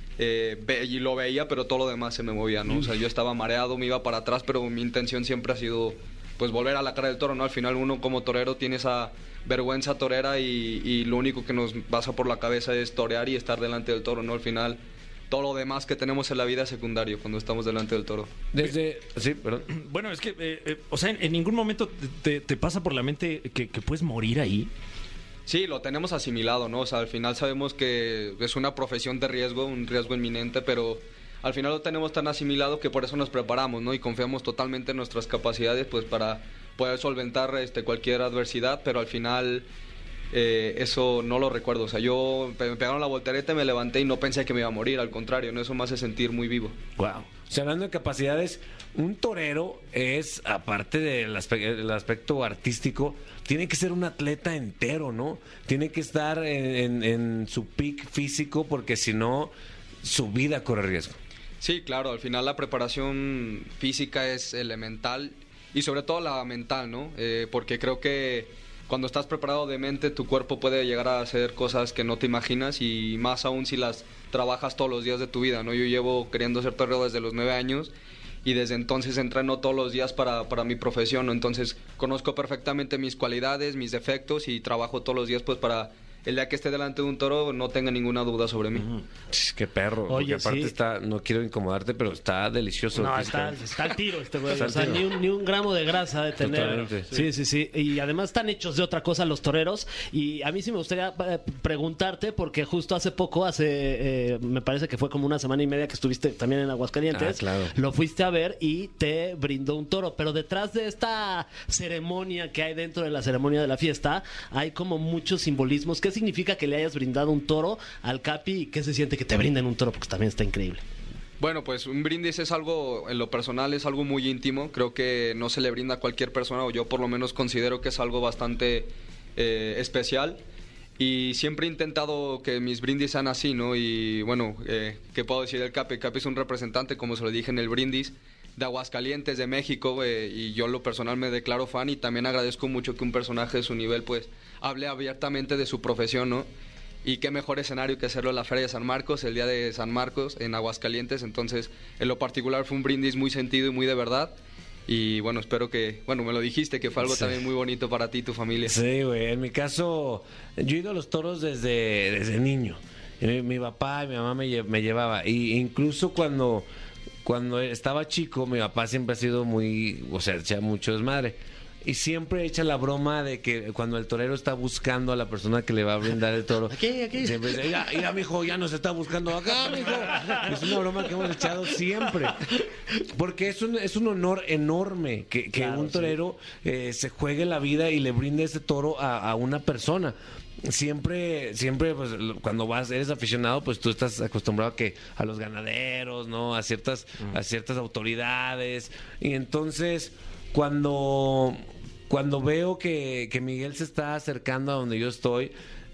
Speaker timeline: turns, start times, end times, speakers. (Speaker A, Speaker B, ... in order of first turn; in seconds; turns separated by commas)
Speaker A: 0.2-18.4, Speaker B: 18.5-19.7, Speaker C: 19.7-24.7, Speaker A: 25.5-39.6, Speaker A: 40.3-46.8, Speaker C: 47.0-47.3, Speaker B: 47.5-61.2, Speaker A: 61.6-77.9, Speaker A: 78.4-88.9, Speaker C: 88.8-89.0, Speaker B: 89.3-93.7, Speaker D: 90.1-90.7, Speaker D: 92.9-120.8, Speaker B: 94.5-95.1, Speaker B: 96.4-97.1, Speaker B: 107.1-107.7, Speaker A: 121.4-130.4, Speaker A: 131.0-146.5, Speaker A: 147.0-154.3, Speaker A: 154.9-158.7, Speaker B: 157.0-157.4, Speaker B: 158.6-166.7, Speaker B: 167.2-182.5, Speaker D: 176.7-177.8, Speaker D: 180.0-180.6, Speaker B: 183.1-205.5, Speaker D: 185.6-186.1